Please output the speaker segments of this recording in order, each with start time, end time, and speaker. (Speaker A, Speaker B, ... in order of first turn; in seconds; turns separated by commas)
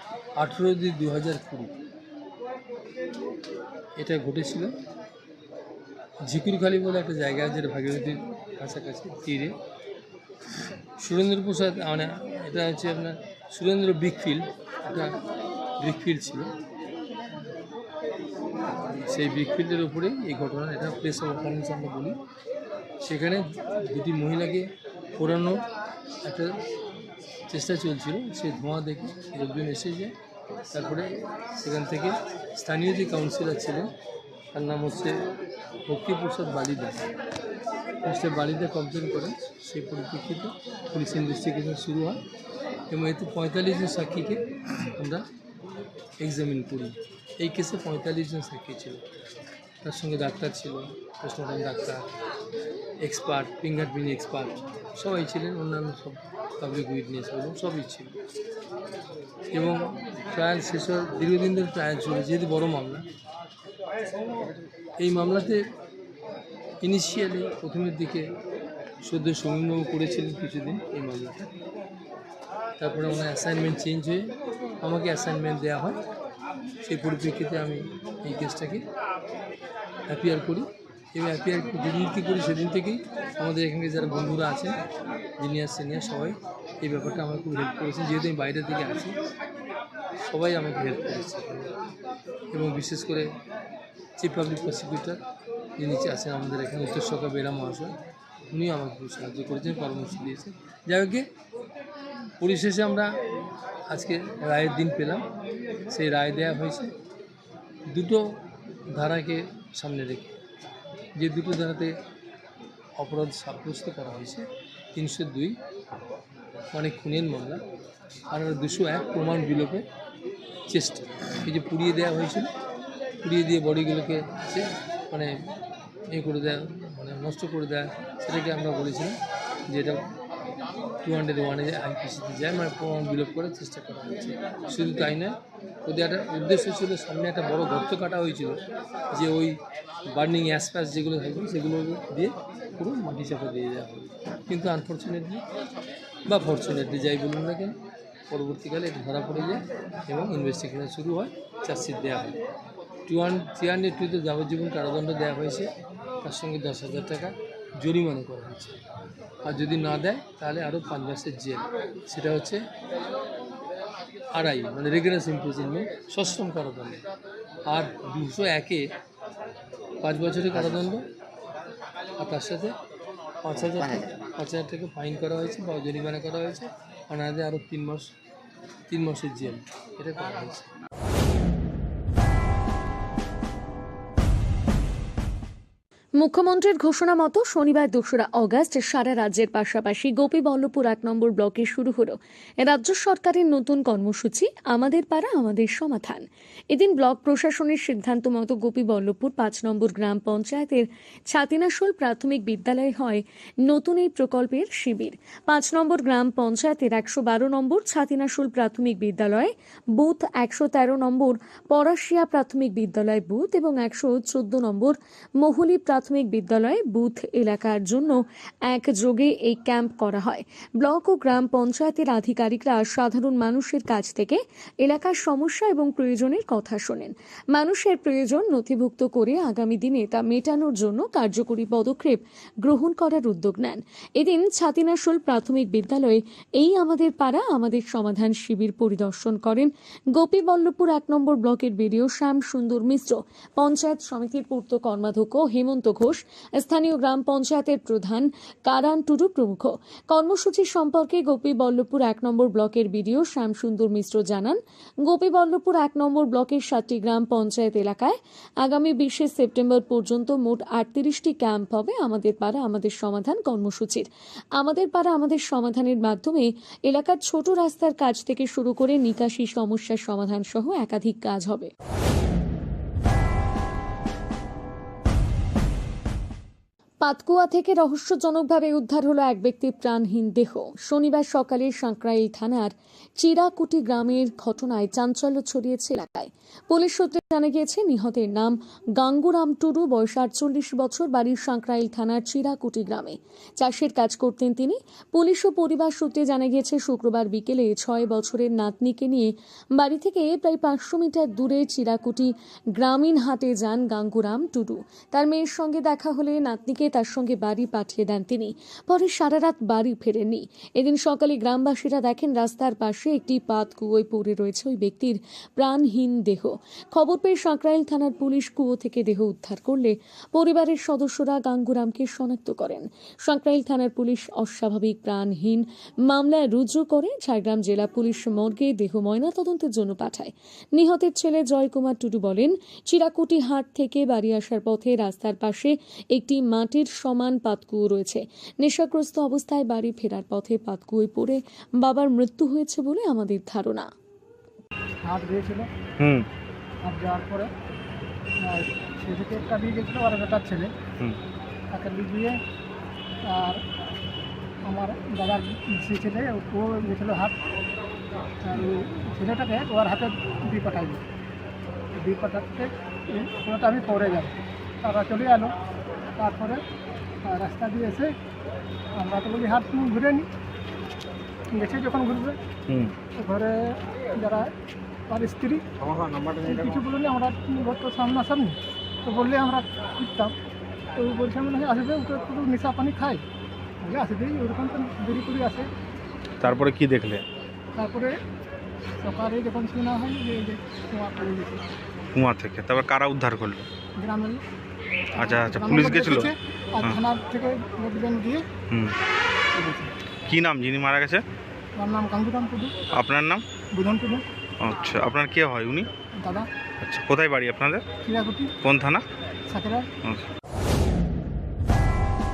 Speaker A: 0.4-1.7, Speaker A: 4.0-4.7, Speaker A: 6.2-9.6, Speaker A: 11.0-15.2, Speaker A: 15.8-16.5, Speaker A: 18.9-22.2, Speaker A: 23.0-25.6, Speaker A: 26.2-26.5, Speaker A: 27.5-30.1, Speaker A: 30.7-33.9, Speaker A: 34.5-35.1, Speaker A: 35.9-37.0, Speaker A: 38.0-42.2, Speaker A: 42.9-44.4, Speaker A: 45.0-45.2, Speaker A: 46.2-49.0, Speaker A: 49.8-52.1, Speaker A: 53.0-58.1, Speaker A: 59.5-63.0, Speaker A: 65.0-65.6, Speaker A: 66.8-68.2, Speaker A: 69.0-71.5, Speaker A: 72.8-74.2, Speaker A: 74.8-76.0, Speaker A: 76.8-78.8, Speaker A: 80.1-84.7, Speaker A: 85.4-89.2, Speaker A: 90.2-91.7, Speaker A: 92.5-93.3, Speaker A: 94.2-95.2, Speaker A: 95.8-97.9, Speaker A: 98.5-101.3, Speaker A: 102.4-103.1, Speaker A: 103.9-105.2, Speaker A: 105.9-106.9, Speaker A: 107.9-108.2, Speaker A: 108.9-110.3, Speaker A: 111.2-111.9, Speaker A: 113.0-115.6, Speaker A: 116.7-117.6, Speaker A: 118.3-119.8, Speaker A: 120.7-122.5, Speaker A: 123.2-125.3, Speaker A: 126.1-129.2, Speaker A: 129.7-130.0, Speaker A: 131.0-138.6, Speaker A: 139.1-139.6, Speaker A: 140.1-145.4, Speaker A: 146.3-147.8, Speaker A: 148.3-152.4, Speaker A: 153.1-155.7, Speaker A: 156.2-158.8, Speaker A: 159.5-162.6, Speaker A: 164.3-167.0, Speaker A: 167.7-168.9, Speaker A: 170.0-171.1, Speaker A: 172.2-172.7, Speaker A: 173.4-178.1, Speaker A: 178.9-180.7, Speaker B: 186.2-271.7, Speaker B: 277.0-343.9, Speaker C: 345.1-345.7, Speaker D: 346.0-346.3, Speaker C: 346.9-347.5, Speaker C: 348.4-350.7, Speaker C: 351.7-352.4, Speaker C: 353.3-353.6, Speaker C: 354.7-357.3, Speaker C: 358.4-361.0, Speaker C: 362.0-365.5, Speaker C: 366.2-366.6, Speaker C: 367.3-368.1, Speaker C: 369.0-370.3, Speaker C: 371.6-372.4, Speaker D: 372.7-372.9, Speaker C: 373.2-374.5, Speaker C: 375.1-375.6, Speaker D: 375.8-376.9, Speaker C: 376.5-378.6, Speaker C: 379.1-380.3, Speaker C: 381.0-383.2, Speaker C: 383.9-385.7, Speaker D: 386.4-387.2, Speaker C: 387.8-388.1, Speaker C: 389.0-391.6, Speaker D: 392.1-393.7, Speaker C: 394.0-394.4, Speaker D: 395.2-397.0, Speaker C: 395.2-398.4, Speaker C: 399.6-399.9, Speaker D: 400.3-401.2, Speaker C: 401.8-402.8, Speaker D: 402.9-403.4, Speaker C: 403.7-404.2, Speaker D: 404.6-405.9, Speaker C: 406.2-406.5, Speaker D: 406.8-407.8, Speaker C: 408.1-408.5, Speaker D: 408.6-409.0, Speaker C: 409.5-409.9